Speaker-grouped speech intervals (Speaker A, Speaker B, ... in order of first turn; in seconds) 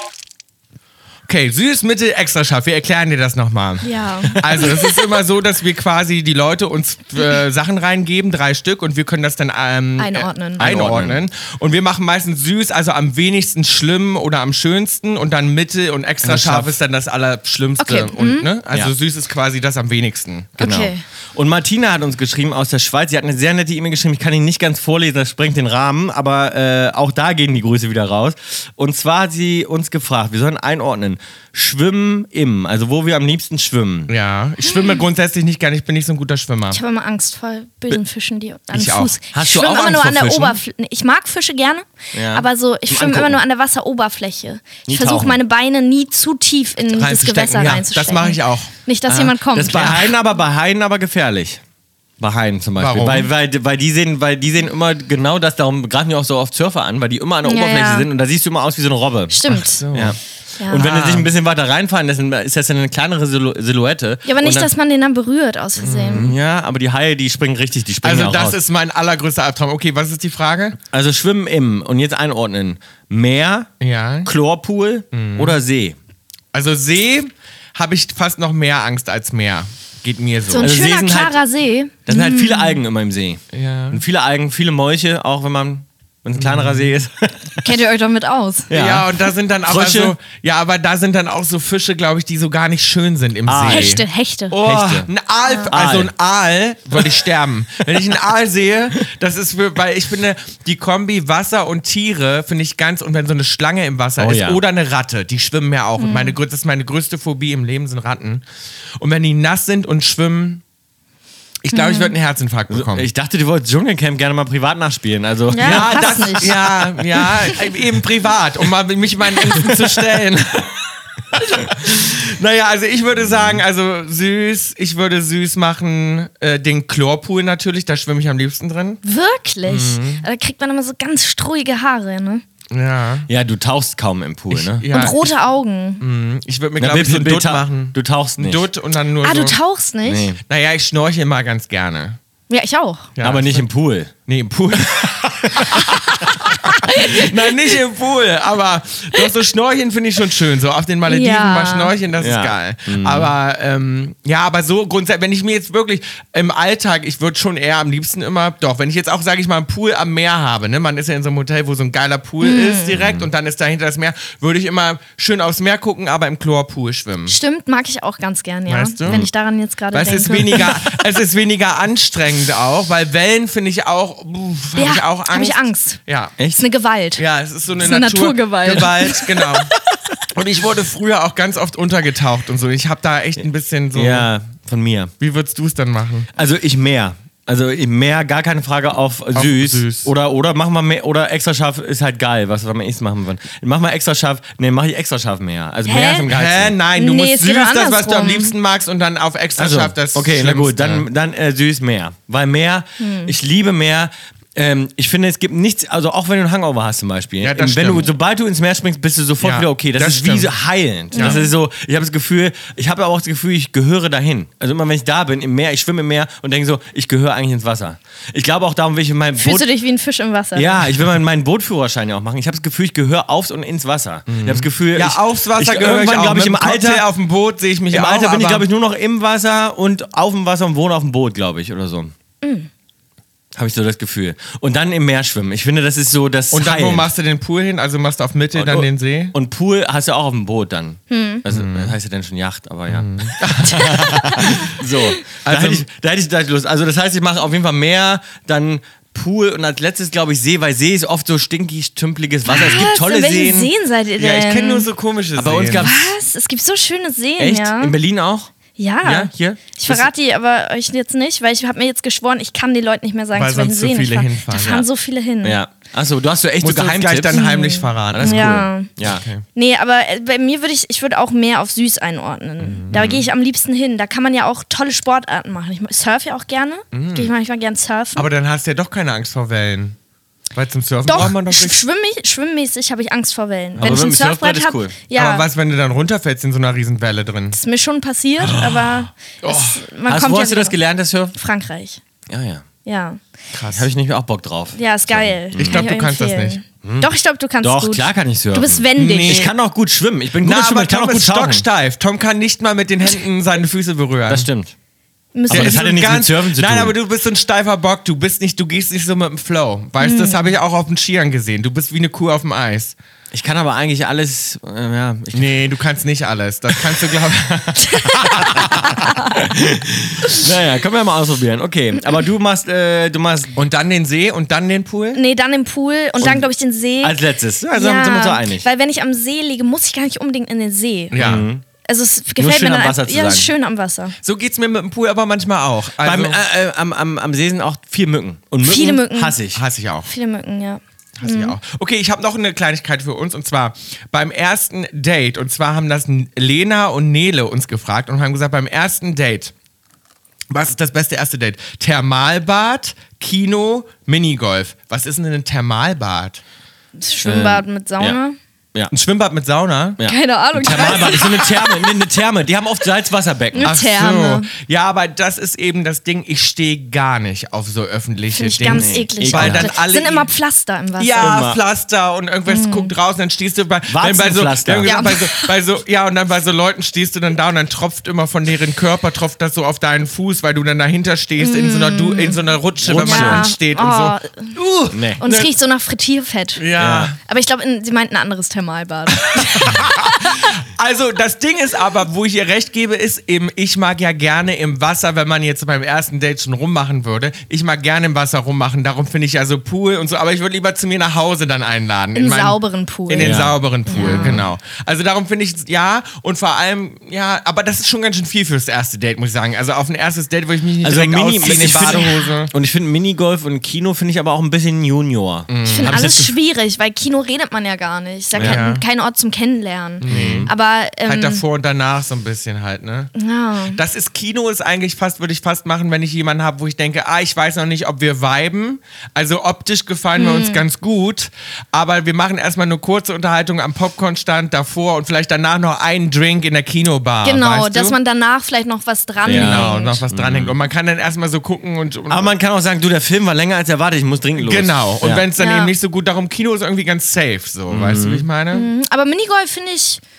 Speaker A: 1.3-20.5, 34.1-36.8, 38.7-39.2, 46.9-48.7, 52.8-53.3, 59.5-60.2, 60.8-61.3, 65.8-66.4, 68.0-70.8, 73.8-74.3, 75.1-75.6, 76.5-80.8, 83.5-84.0, 86.3-86.9, 88.7-108.4, 109.0-110.6, 111.6-113.1, 115.6-129.0, 129.7-130.2, 132.7-133.3, 134.5-135.3, 136.0-139.6, 140.5-142.2, 143.2-143.7, 144.3-167.4, 168.7-169.3, 169.9-176.4, 177.2-179.7, 180.3-184.3, 185.2-186.3, 189.3-190.1, 196.3-201.1, 207.4-208.1, 209.4-210.5, 211.1-211.4, 224.3-228.7, 236.5-239.3, 241.5-241.9, 242.9-244.8, 245.4-245.8, 254.2-255.9, 263.4-264.9, 266.6-269.4, 272.6-273.1, 276.9-277.3, 278.2-280.0, 280.6-281.8, 285.1-287.6, 288.5-288.9, 289.4-289.8, 293.5-293.9, 295.6-296.6, 299.0-299.5, 300.4-304.5, 305.5-312.9, 315.3-319.1, 323.6-325.2, 331.1-331.5, 334.2-336.4, 339.5-340.1, 341.2-349.5, 350.5-356.4, 358.9-360.0, 360.7-361.1, 363.6-370.3, 371.0-385.5, 386.6-387.2, 389.2-412.5, 415.5-416.0, 418.4-418.8, 420.0-420.5, 421.1-423.1, 423.7-438.0, 439.2-442.3, 444.4-448.7
Speaker B: 3.8-4.8, 10.0-10.8, 17.8-18.5, 20.6-21.0, 34.6-35.0, 36.7-50.1, 57.4-58.1, 59.3-59.8, 60.6-61.0, 64.2-66.3, 80.5-82.8, 87.6-88.7, 93.7-94.6, 95.5-95.7, 106.0-106.4, 111.7-112.1, 115.5-116.6, 129.0-132.4, 134.9-136.0, 139.2-140.3, 142.5-143.1, 146.9-147.3, 151.1-151.9, 162.4-163.0, 167.3-171.0, 174.8-176.0, 176.6-177.2, 177.8-179.7, 195.8-196.3, 196.9-198.5, 203.0-203.3, 211.1-211.5, 219.4-220.8, 232.4-232.7, 241.1-241.4, 252.5-254.9, 255.8-257.9, 258.8-265.6, 267.3-268.9, 269.5-278.3, 281.1-285.5, 287.5-290.8, 291.3-292.0, 292.9-293.2, 294.7-299.5, 305.4-306.0, 310.0-310.5, 318.1-318.6, 319.1-319.4, 325.1-327.2, 327.7-331.2, 331.8-334.1, 338.6-339.4, 340.1-341.6, 357.0-358.4, 360.0-362.0, 363.5-364.5, 368.4-371.4, 372.5-372.9, 374.8-375.5, 381.4-382.4, 383.0-384.6, 385.2-390.4, 402.1-404.4, 411.5-412.3, 415.6-421.4, 423.1-423.8, 430.2-430.6, 437.2-440.0, 445.4-445.7, 448.5-450.0
Speaker C: 10.6-11.2, 16.2-16.8, 20.6-34.1, 39.3-40.6, 42.1-43.4, 44.9-45.4, 49.1-51.6, 52.2-59.4, 59.9-64.7, 66.1-68.6, 70.9-73.7, 74.2-76.0, 80.6-81.4, 82.1-87.8, 88.7-90.2, 93.5-94.0, 94.5-95.1, 95.7-96.1, 104.2-104.6, 112.7-116.6, 123.3-123.6, 133.3-134.9, 136.8-138.6, 140.1-140.4, 143.2-144.1, 145.5-146.0, 152.2-153.3, 163.0-163.3, 176.4-176.6, 183.9-185.1, 186.3-196.8, 199.6-219.7, 220.6-227.1, 227.9-232.1, 233.6-237.1, 238.5-253.7, 255.4-256.1, 257.4-258.5, 259.0-260.1, 265.4-267.5, 268.1-269.2, 272.9-273.3, 283.8-284.9, 290.1-291.3, 292.3-292.7, 293.7-295.9, 296.8-297.1, 297.6-301.6, 304.3-304.7, 305.5-306.9, 313.3-315.6, 318.4-318.7, 319.4-323.6, 326.2-326.5, 327.0-328.7, 331.2-331.6, 332.4-333.5, 336.0-339.6, 357.2-358.2, 360.0-363.8, 368.7-369.7, 371.2-371.6, 373.9-375.1, 382.8-383.5, 384.9-385.2, 386.8-387.1, 403.2-404.5, 410.8-416.4, 418.3-418.6, 420.1-420.5, 439.2-440.5, 442.1-445.3, 447.7-448.3